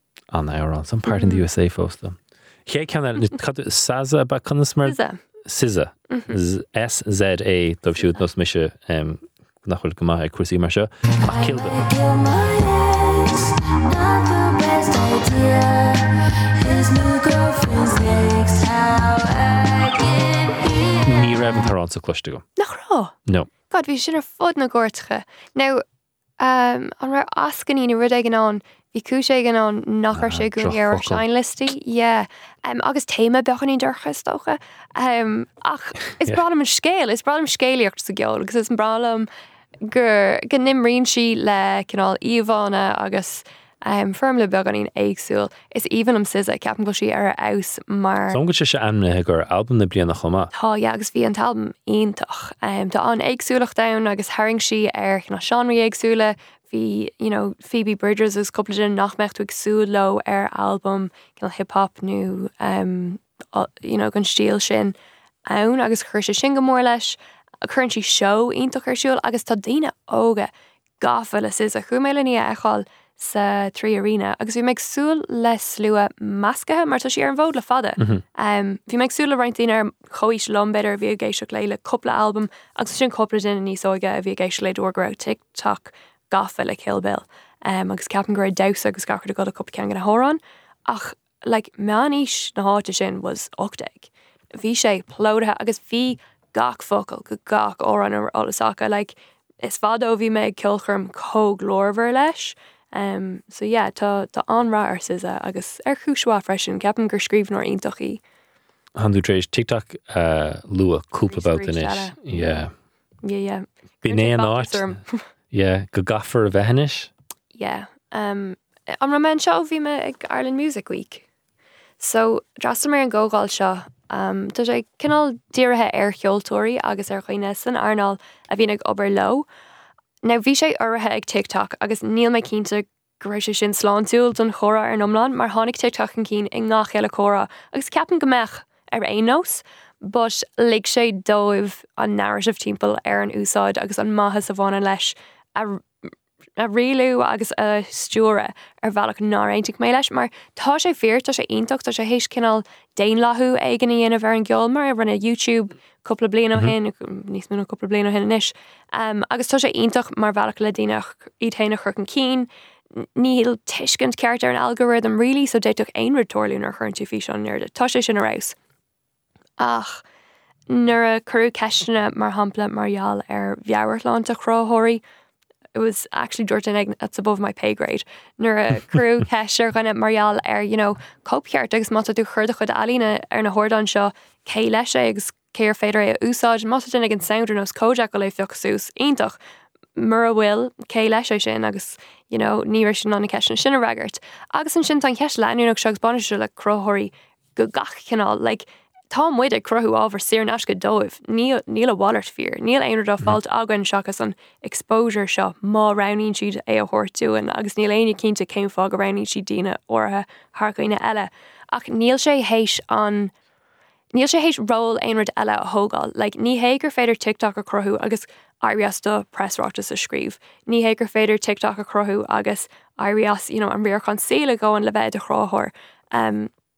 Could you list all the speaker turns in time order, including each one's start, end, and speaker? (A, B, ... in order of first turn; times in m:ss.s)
0:00.3-0:11.8 A
0:01.1-0:01.4 B
0:04.8-0:05.2 B
0:06.1-0:06.4 B
0:11.2-0:21.4 C
0:21.1-0:22.4 A
0:22.6-0:23.1 B
0:23.7-0:25.8 B
0:26.4-0:39.3 B
0:30.1-0:31.2 A
0:39.9-0:48.4 B
0:48.3-0:50.5 A
0:50.5-1:05.0 B
1:05.5-1:48.2 B
1:18.0-1:18.2 A
1:49.0-1:52.7 A
1:51.3-1:52.6 B
1:53.2-1:55.2 B
1:54.0-1:54.9 A
1:55.5-1:57.1 A
1:57.6-2:01.2 B
2:02.0-2:09.5 B
2:10.2-2:25.8 B
2:26.6-2:42.5 B
2:43.0-2:48.6 B
2:49.6-2:50.0 B
2:50.7-2:55.0 B
2:55.8-3:09.4 B
3:10.0-3:33.3 B
3:34.1-3:46.5 B